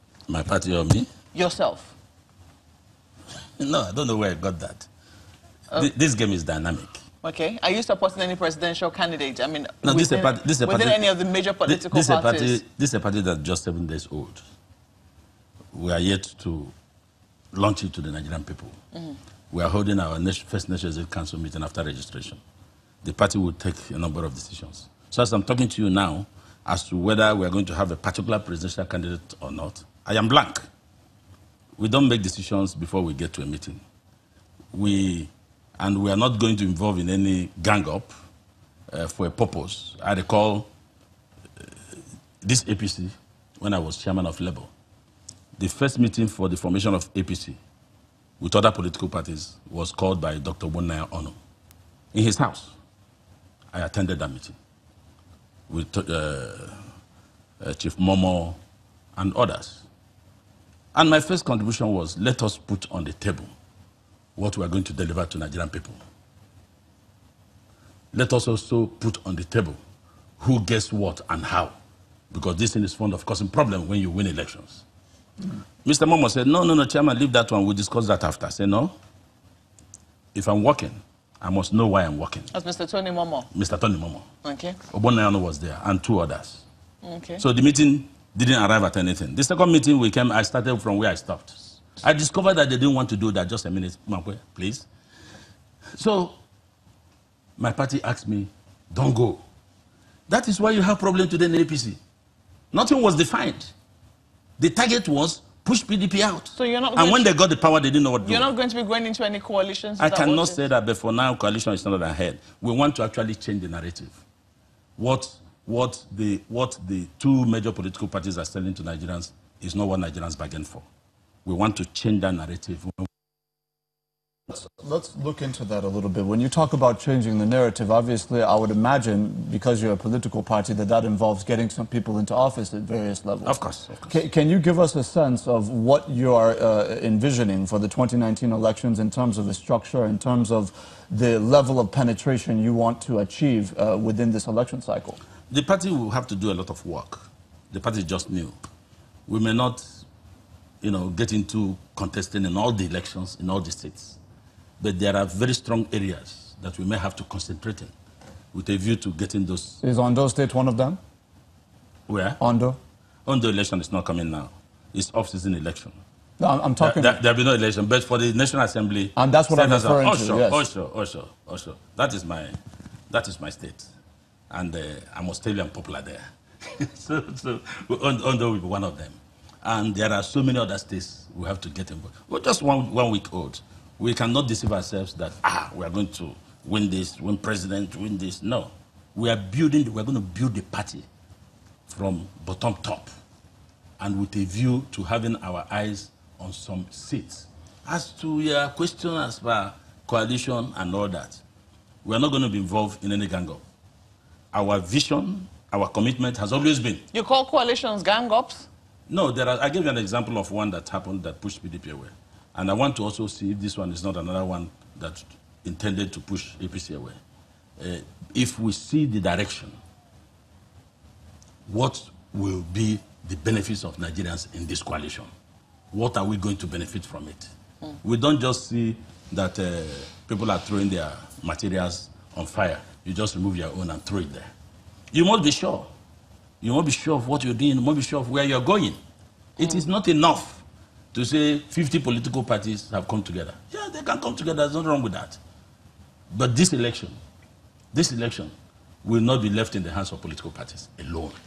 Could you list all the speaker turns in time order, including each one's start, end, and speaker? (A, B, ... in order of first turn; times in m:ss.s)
0:00.3-0:01.1 A
0:01.3-0:02.0 B
0:03.6-0:04.9 A
0:05.7-0:07.0 A
0:07.2-0:12.6 B
0:09.8-0:11.0 A
0:11.6-0:14.4 A
0:15.7-0:16.7 A
0:17.5-0:18.8 A
0:19.5-0:22.4 A
0:23.0-0:30.7 A
0:31.8-0:33.8 A
0:34.7-0:38.1 A
0:38.9-0:40.7 A
0:42.4-0:44.7 A
0:45.6-0:47.6 A
0:48.4-0:51.4 A
0:52.1-0:52.8 A
0:53.7-0:54.6 A
0:55.7-0:56.9 A
0:57.6-0:58.6 A
0:59.2-0:59.8 A
1:00.9-1:03.5 A
1:04.4-1:06.0 A
1:08.1-1:09.8 A
1:10.4-1:11.7 A
1:12.3-1:14.8 A
1:15.8-1:18.9 A
1:20.3-1:22.5 A
1:22.5-1:23.5 B
1:23.5-1:24.2 A
1:24.4-1:24.8 B
1:24.9-1:26.6 A
1:27.0-1:27.4 B
1:27.4-1:34.9 A
1:36.0-1:36.4 A
1:37.6-1:39.4 A
1:40.3-1:42.0 A
1:42.7-1:43.7 A
1:44.6-1:48.5 A
1:46.5-1:47.3 B
1:48.2-1:50.6 B
1:50.0-1:54.2 A
1:55.0-2:00.8 A
2:01.4-2:03.1 A
2:04.5-2:25.2 C
2:13.4-2:14.2 A
2:25.5-2:28.6 A
2:29.3-2:30.0 A
2:30.8-2:34.2 A
2:34.8-2:37.9 A
2:38.5-2:39.8 A
2:39.8-2:41.0 C
2:42.1-2:42.4 A
2:42.4-2:42.8 C
2:43.2-2:46.0 A
2:46.4-2:47.2 C
2:46.8-2:52.6 A
2:49.2-2:50.6 C
2:53.1-2:53.9 A
2:54.5-3:11.0 A
3:11.9-3:13.1 A
3:14.0-3:21.4 A
3:22.0-3:23.6 A
3:24.5-3:27.0 A
3:27.1-3:28.7 B
3:29.1-3:37.2 A
3:37.8-3:39.8 A
3:41.7-3:45.3 A
3:45.9-3:47.5 A
3:48.0-3:54.5 A
3:55.1-3:55.9 A
3:56.6-3:59.0 A
3:59.6-4:05.4 A
4:06.3-4:07.2 A
4:07.9-4:11.4 A